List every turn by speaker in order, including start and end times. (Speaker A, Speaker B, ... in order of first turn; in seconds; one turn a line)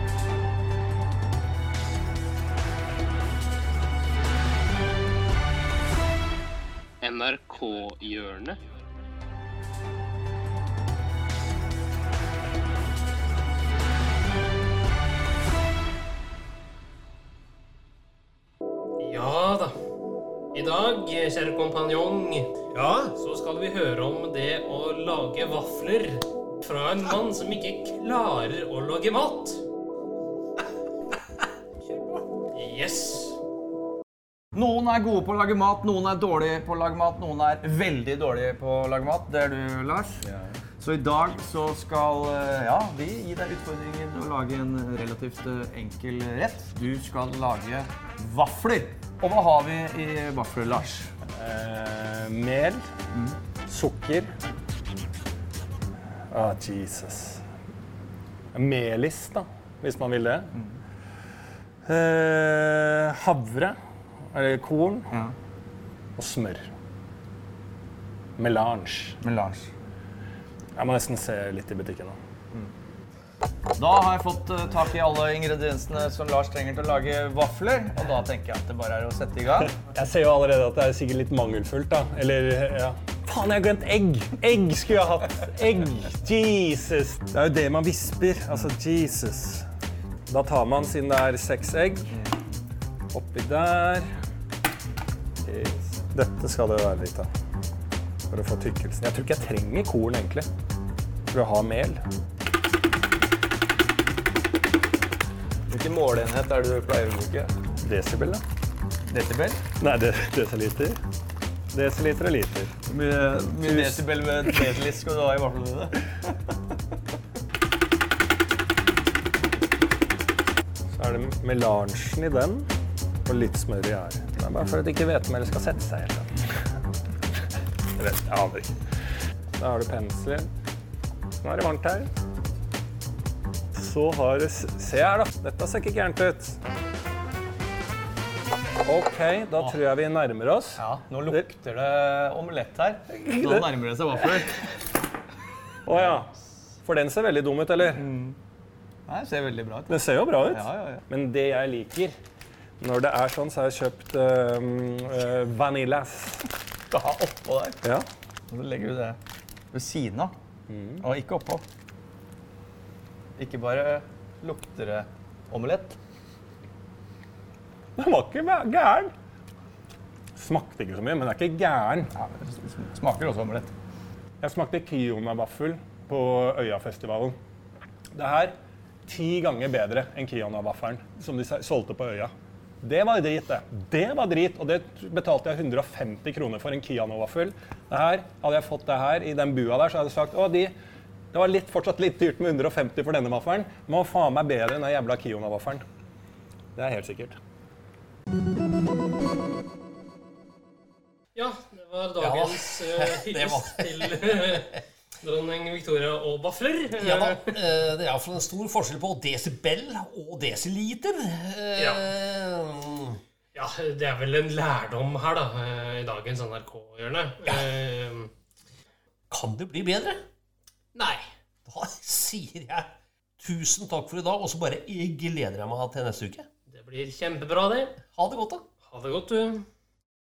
Speaker A: 7.0-8.6
Speaker A: 19.0-19.8
Speaker A: 20.5-22.6
Speaker B: 22.7-23.1
Speaker A: 23.2-29.6
Speaker B: 31.9-32.2
Speaker A: 32.5-33.4
Speaker C: 34.5-51.1
Speaker D: 51.4-52.9
Speaker D: 53.7-54.3
Speaker D: 56.3-57.4
Speaker D: 58.5-60.5
Speaker D: 61.9-63.8
Speaker D: 64.3-65.1
Speaker D: 66.2-66.7
Speaker D: 68.4-69.2
Speaker C: 69.2-69.7
Speaker D: 70.8-72.2
Speaker C: 73.8-79.8
Speaker D: 79.7-89.7
Speaker D: 90.3-92.2
Speaker D: 93.1-94.1
Speaker D: 95.4-97.3
Speaker D: 98.3-100.5
Speaker D: 101.3-102.0
Speaker C: 105.7-107.5
Speaker D: 107.8-108.4
Speaker C: 109.1-109.7
Speaker D: 109.7-111.0
Speaker D: 111.7-112.7
Speaker C: 112.9-116.3
Speaker D: 113.7-114.0
Speaker D: 120.9-122.7
Speaker D: 123.3-126.6
Speaker D: 128.0-128.8
Speaker D: 129.6-130.5
Speaker D: 131.4-132.1
Speaker D: 133.8-136.6
Speaker D: 138.9-141.5
Speaker C: 140.8-144.7
Speaker D: 143.1-143.7
Speaker D: 145.9-146.3
Speaker C: 145.9-146.2
Speaker D: 146.8-148.1
Speaker C: 147.9-148.4
Speaker C: 149.1-151.1
Speaker D: 149.9-152.2
Speaker D: 152.8-156.5
Speaker C: 156.9-157.8
Speaker C: 158.5-159.2
Speaker C: 159.7-160.3
Speaker D: 160.7-161.0
Speaker C: 161.0-161.6
Speaker C: 163.4-166.0
Speaker D: 168.0-169.1
Speaker D: 170.3-172.1
Speaker C: 172.1-173.7
Speaker D: 174.4-177.3
Speaker D: 178.1-178.6
Speaker D: 179.1-190.7
Speaker D: 191.3-195.8
Speaker D: 196.8-197.4
Speaker A: 201.3-207.6
Speaker B: 202.2-204.4
Speaker B: 207.0-213.2
Speaker A: 211.8-212.1
Speaker A: 213.5-218.3
Speaker B: 219.3-220.2
Speaker A: 220.9-221.2
Speaker B: 221.7-226.5
Speaker A: 226.7-228.0
Speaker B: 228.1-228.7
Speaker A: 228.8-229.7